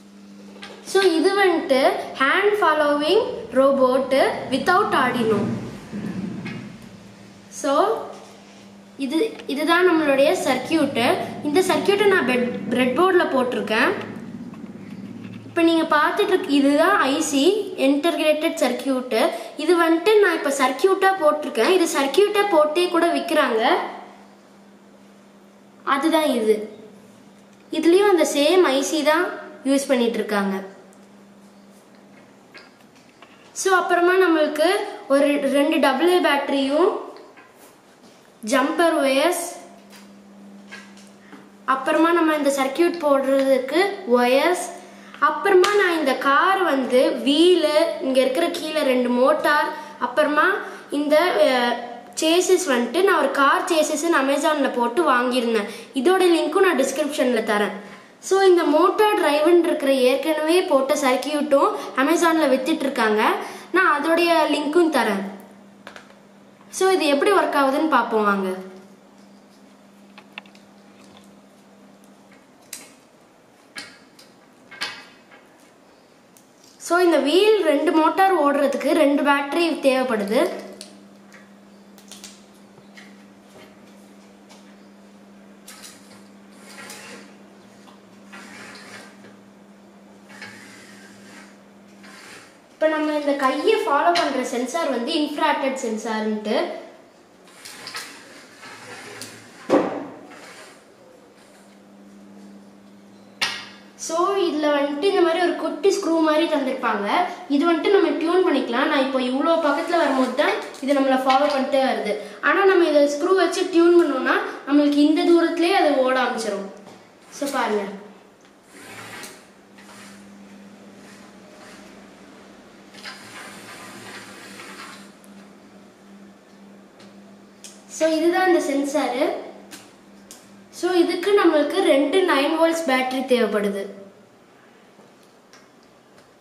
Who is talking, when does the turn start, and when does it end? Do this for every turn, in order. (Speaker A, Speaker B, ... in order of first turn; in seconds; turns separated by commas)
Speaker A: 0.8-5.5, Speaker A: 7.5-8.0, Speaker A: 9.0-13.9, Speaker A: 15.5-23.8, Speaker A: 25.9-26.6, Speaker A: 27.7-30.6, Speaker A: 33.5-37.0, Speaker A: 38.5-39.6, Speaker A: 41.7-44.7, Speaker A: 45.2-65.2, Speaker A: 66.7-68.5, Speaker A: 76.8-80.4, Speaker A: 92.8-96.6, Speaker A: 104.0-116.7, Speaker A: 117.3-117.9, Speaker A: 127.9-129.3, Speaker A: 130.7-133.9